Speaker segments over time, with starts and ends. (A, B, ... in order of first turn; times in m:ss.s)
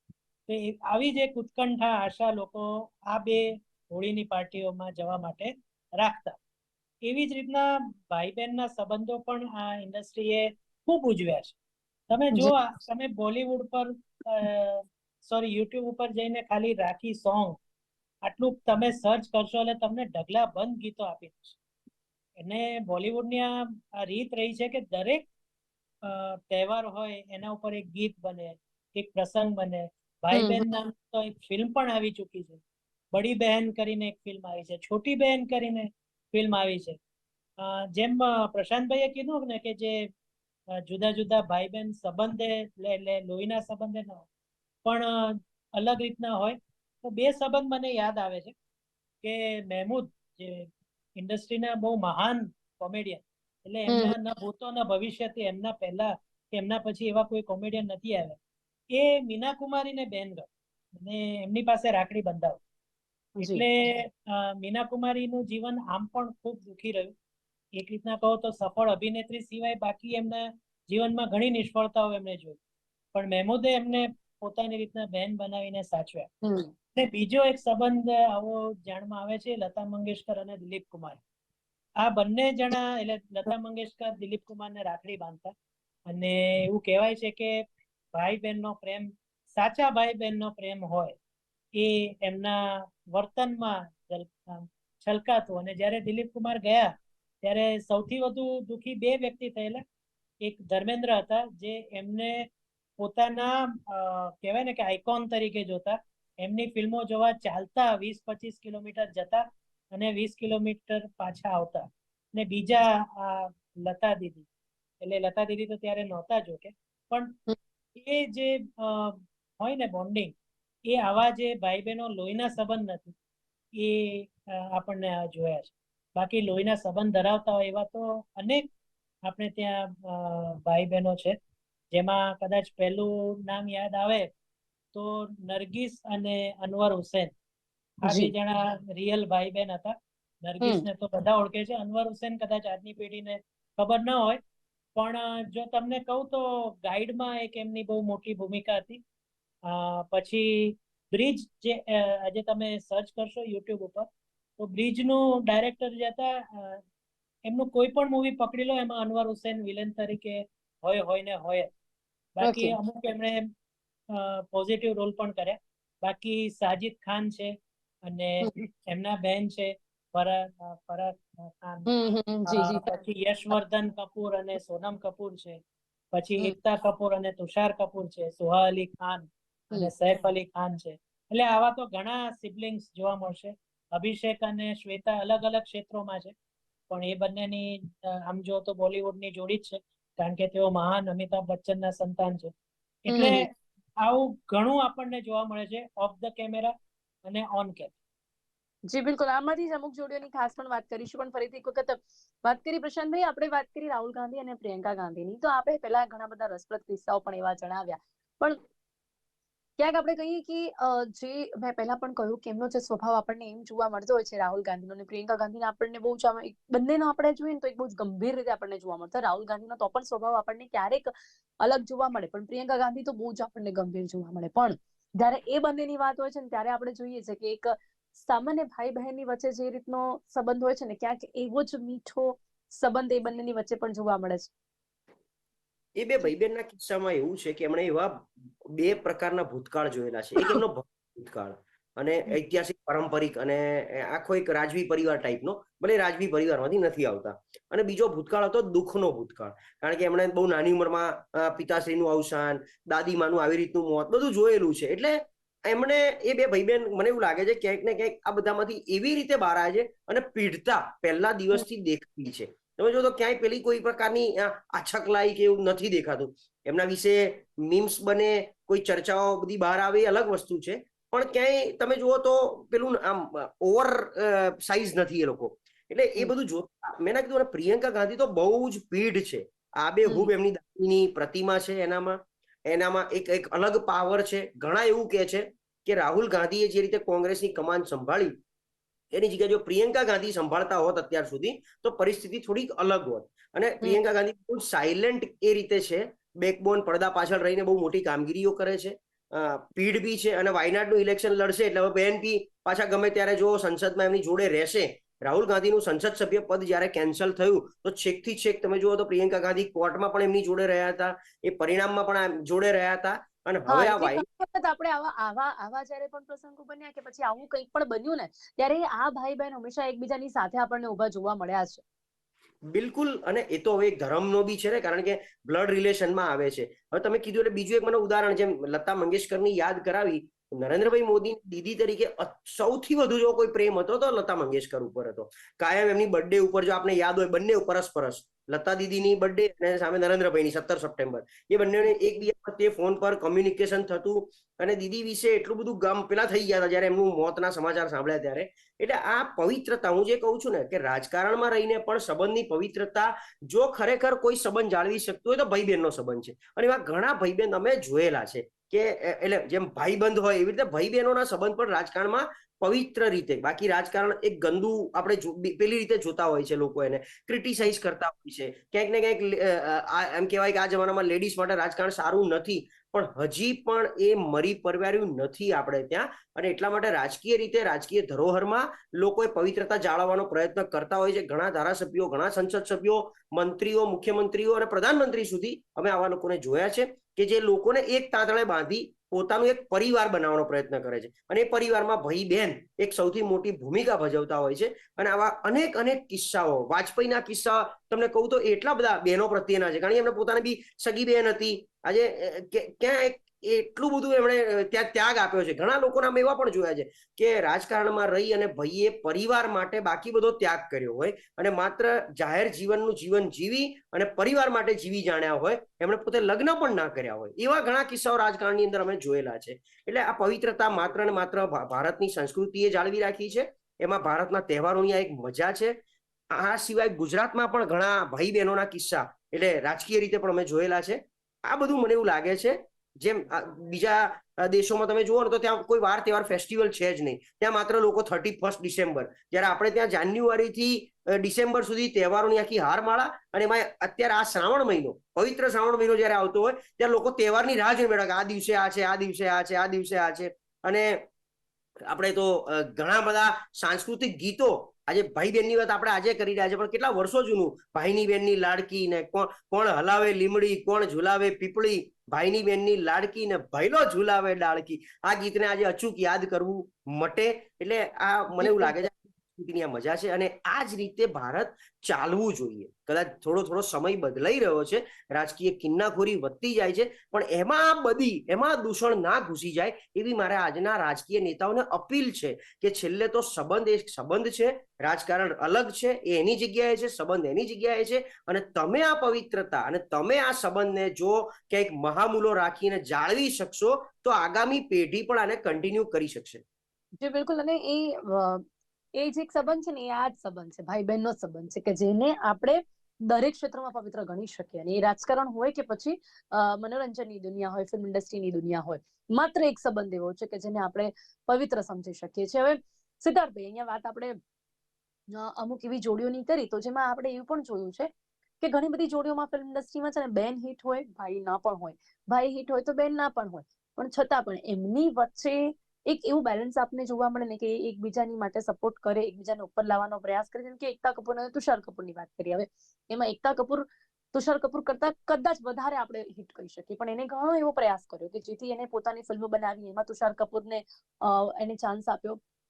0:00.5-0:06.4 A
0:07.0-0:11.6 A
0:12.1-0:17.6 A
0:18.2-0:21.6 A
0:22.4-0:25.2 A
0:26.0-0:32.6 A
0:30.3-0:30.7 B
0:33.1-0:37.0 A
0:37.6-0:40.1 A
0:40.8-0:44.3 A
0:44.8-0:48.5 A
0:49.2-0:58.4 A
0:53.9-0:54.1 B
0:58.9-1:02.6 A
1:03.4-1:03.6 B
1:03.4-1:07.1 A
1:07.8-1:12.6 A
1:13.1-1:16.3 A
1:16.4-1:16.7 B
1:17.0-1:21.2 A
1:22.0-1:25.5 A
1:26.1-1:31.2 A
1:31.8-1:39.8 A
1:40.4-1:42.5 A
1:43.0-1:54.5 A
1:55.0-1:57.4 A
1:58.0-2:00.3 A
2:00.9-2:03.2 A
2:03.8-2:08.7 A
2:09.3-2:11.4 A
2:11.9-2:14.3 A
2:14.9-2:17.3 A
2:18.0-2:24.4 A
2:18.1-2:18.3 B
2:25.0-2:29.0 A
2:29.7-2:34.1 A
2:34.6-2:36.8 A
2:37.4-2:41.7 A
2:42.4-2:43.5 A
2:42.4-2:42.8 B
2:44.1-2:47.5 A
2:48.1-2:51.9 A
2:51.9-2:52.9 B
2:52.5-2:55.6 A
2:56.1-3:06.3 A
3:06.9-3:12.5 A
3:13.0-3:13.5 A
3:13.1-3:13.5 B
3:14.0-3:16.7 A
3:17.2-3:18.0 A
3:18.9-3:28.6 B
3:29.8-3:41.1 B
3:41.6-3:54.5 B
3:56.0-4:48.4 C
4:49.1-5:14.2 C
5:13.7-5:21.8 B
5:22.7-7:05.8 C
7:06.3-7:31.0 C
7:31.9-8:16.4 C
7:48.4-7:48.8 B
8:17.0-8:18.4 B
8:19.0-8:34.2 B
8:35.1-8:37.9 B
8:38.4-9:02.2 B